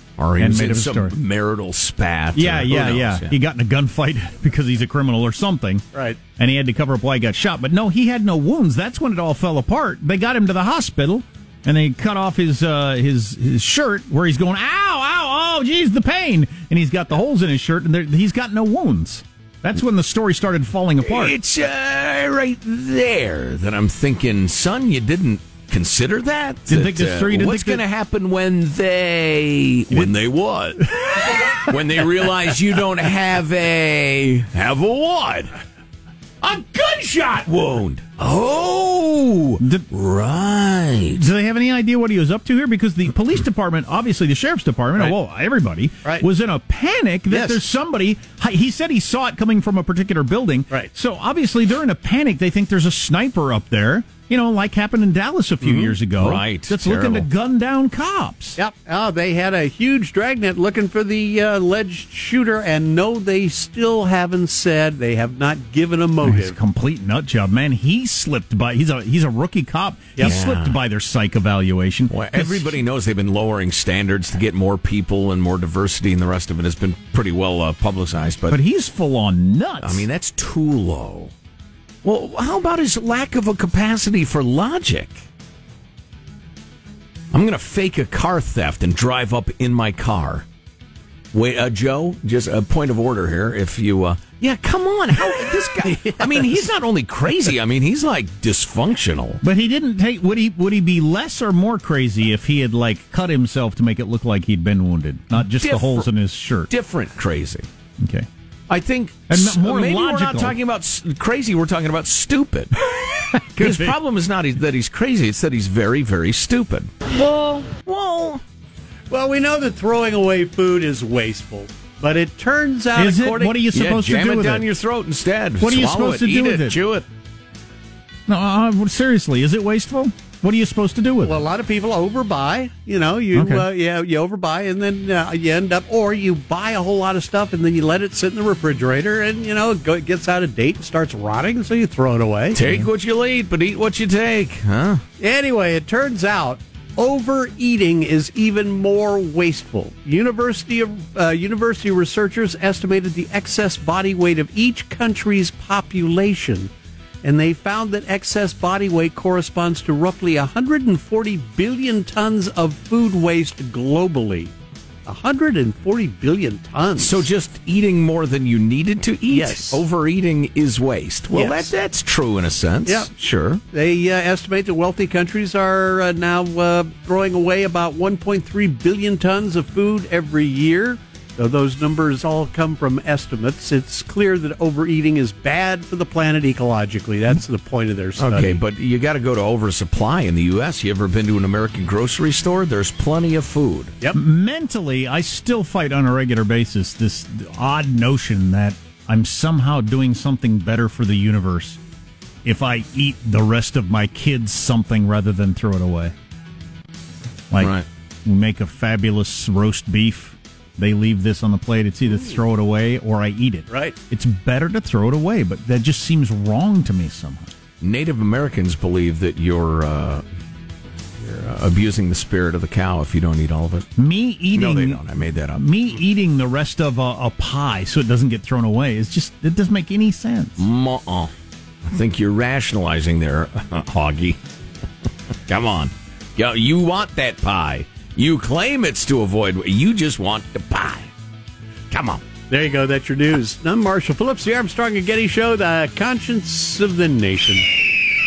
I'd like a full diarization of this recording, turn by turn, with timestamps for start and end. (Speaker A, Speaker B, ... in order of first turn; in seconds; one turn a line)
Speaker A: 0.2-3.3
Speaker B: 0.4-1.1
Speaker B: 2.3-5.8
Speaker B: 6.4-21.4
Speaker A: 21.0-35.5
Speaker B: 26.7-27.8
Speaker A: 36.4-41.2
Speaker B: 39.6-39.9
Speaker B: 41.1-58.6
Speaker C: 47.3-47.6
Speaker C: 55.6-55.9
Speaker A: 56.2-57.3
Speaker C: 58.5-66.5
Speaker B: 66.2-72.8
Speaker A: 70.2-70.8
Speaker A: 72.1-78.6
Speaker B: 78.5-80.1
Speaker A: 79.8-81.3
Speaker A: 82.0-85.2
Speaker A: 87.3-90.5
Speaker A: 91.3-99.4
Speaker B: 95.3-96.6
Speaker B: 99.4-106.7
Speaker A: 105.4-106.1
Speaker A: 106.7-107.7
Speaker B: 108.0-108.3
Speaker A: 108.7-112.8
Speaker B: 109.3-110.5
Speaker B: 113.3-113.9
Speaker A: 113.4-118.4
Speaker C: 119.1-123.6
Speaker B: 122.9-124.7
Speaker A: 123.7-127.1
Speaker B: 125.6-126.8
Speaker B: 128.3-131.4
Speaker C: 131.2-142.6
Speaker B: 133.3-133.7
Speaker A: 142.5-145.0
Speaker C: 145.2-156.7
Speaker C: 157.2-164.5
Speaker C: 165.1-167.3
Speaker A: 167.0-173.6
Speaker C: 169.3-169.8
Speaker C: 171.3-171.7
Speaker C: 172.8-173.1
Speaker C: 173.7-188.6
Speaker A: 188.2-193.9
Speaker B: 194.1-201.8
Speaker B: 202.4-206.1
Speaker B: 207.5-217.5
Speaker A: 207.6-207.8
Speaker C: 213.7-213.9
Speaker A: 217.8-220.2
Speaker A: 221.2-223.9
Speaker B: 224.0-230.6
Speaker A: 224.5-225.7
Speaker A: 230.6-231.3
Speaker A: 231.9-234.4
Speaker A: 235.5-241.1
Speaker A: 241.9-242.2
Speaker C: 242.5-247.7